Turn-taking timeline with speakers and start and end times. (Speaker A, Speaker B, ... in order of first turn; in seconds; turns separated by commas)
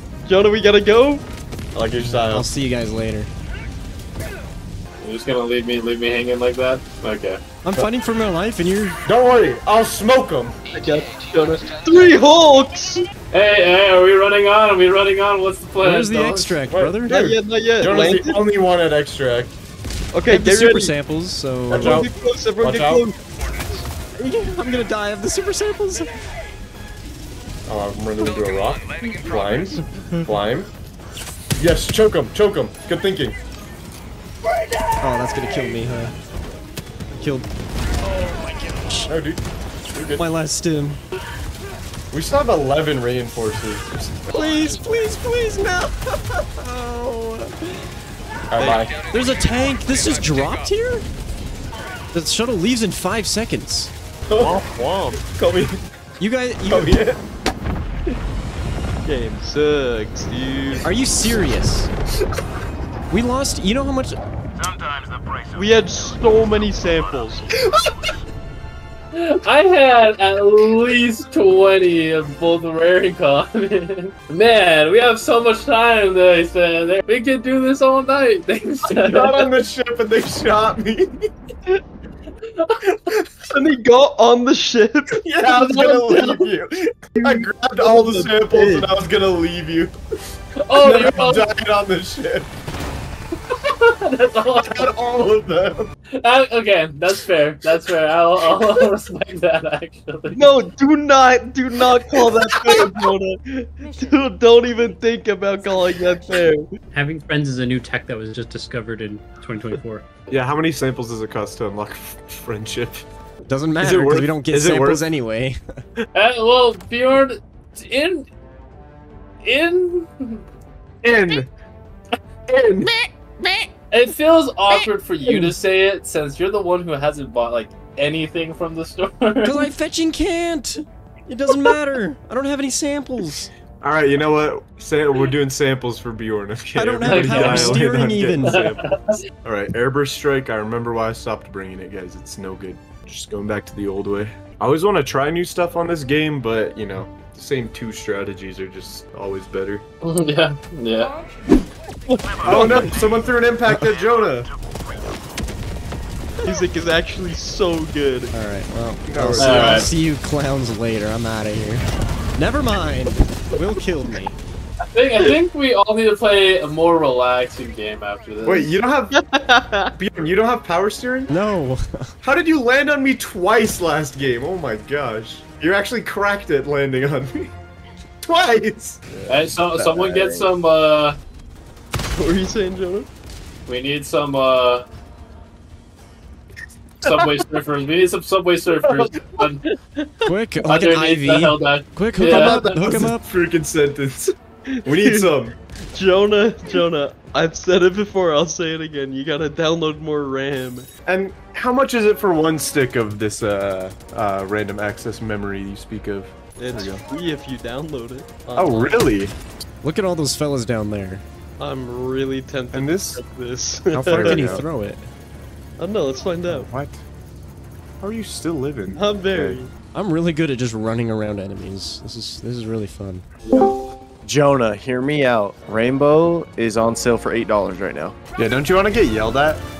Speaker A: 0.3-1.2, Speaker B: 1.7-2.5, Speaker C: 2.3-3.3, Speaker D: 5.0-7.4, Speaker C: 7.6-9.0, Speaker B: 9.1-10.6, Speaker A: 10.7-13.1, Speaker D: 13.3-16.6, Speaker C: 15.8-17.3, Speaker B: 16.7-19.6, Speaker A: 17.1-18.5, Speaker A: 20.1-20.9, Speaker C: 20.3-22.1, Speaker B: 21.7-22.1, Speaker A: 21.7-23.8, Speaker B: 22.6-23.1, Speaker C: 24.2-26.1, Speaker B: 27.7-30.7, Speaker C: 30.1-30.3, Speaker B: 31.6-33.4, Speaker C: 35.0-36.1, Speaker C: 37.1-37.5, Speaker C: 38.1-39.1, Speaker B: 39.1-40.2, Speaker C: 40.2-41.0, Speaker B: 42.1-44.0, Speaker C: 44.2-47.9, Speaker B: 48.5-48.9, Speaker C: 48.6-51.1, Speaker C: 52.1-53.9, Speaker B: 54.3-54.6, Speaker A: 54.4-55.2, Speaker B: 55.2-55.8, Speaker C: 56.2-56.9, Speaker B: 56.7-57.2, Speaker A: 59.0-60.9, Speaker C: 60.8-61.9, Speaker C: 63.1-64.2, Speaker A: 65.5-67.5, Speaker D: 69.1-79.5, Speaker B: 78.8-81.2, Speaker D: 82.5-82.9, Speaker A: 83.5-86.5, Speaker B: 85.2-90.0, Speaker A: 87.2-88.9, Speaker D: 90.7-91.5, Speaker B: 90.8-92.5, Speaker D: 93.5-94.9, Speaker B: 94.6-95.9, Speaker D: 96.2-100.6, Speaker A: 100.3-106.7, Speaker E: 106.9-110.1, Speaker B: 110.3-113.1, Speaker C: 113.5-115.6, Speaker B: 113.8-115.1, Speaker D: 116.1-118.3, Speaker D: 119.4-120.4, Speaker B: 121.0-121.5, Speaker B: 122.5-123.7, Speaker D: 123.9-129.7, Speaker C: 129.4-133.5, Speaker B: 133.8-149.8, Speaker C: 136.7-138.6, Speaker D: 137.1-137.8, Speaker D: 138.4-139.2, Speaker D: 150.0-151.1, Speaker A: 152.1-152.8, Speaker B: 152.4-154.5, Speaker C: 152.5-152.9, Speaker A: 156.4-158.3, Speaker C: 158.3-161.9, Speaker B: 159.1-159.9, Speaker D: 159.4-159.9, Speaker C: 162.4-164.4, Speaker D: 164.9-168.7, Speaker B: 168.4-169.2, Speaker A: 169.1-169.9, Speaker B: 170.0-171.3, Speaker C: 171.3-172.1, Speaker B: 172.2-177.5, Speaker B: 178.2-179.0, Speaker D: 179.3-181.2, Speaker A: 182.1-183.1, Speaker D: 183.7-184.9, Speaker D: 187.0-189.6, Speaker A: 189.4-190.2, Speaker C: 190.3-193.2, Speaker D: 190.6-192.8, Speaker B: 192.2-194.3, Speaker A: 194.7-195.3, Speaker B: 194.8-195.6, Speaker A: 195.9-200.9, Speaker B: 201.1-207.0, Speaker A: 206.6-209.0, Speaker B: 208.6-209.3, Speaker C: 209.8-211.2, Speaker A: 211.6-214.6, Speaker B: 212.7-213.2, Speaker C: 213.9-215.1, Speaker B: 214.2-214.6, Speaker A: 215.8-216.7, Speaker B: 216.5-217.0, Speaker B: 218.0-219.6, Speaker A: 218.9-219.7, Speaker C: 219.9-223.2, Speaker F: 224.3-228.2, Speaker C: 227.2-227.8, Speaker B: 228.4-229.6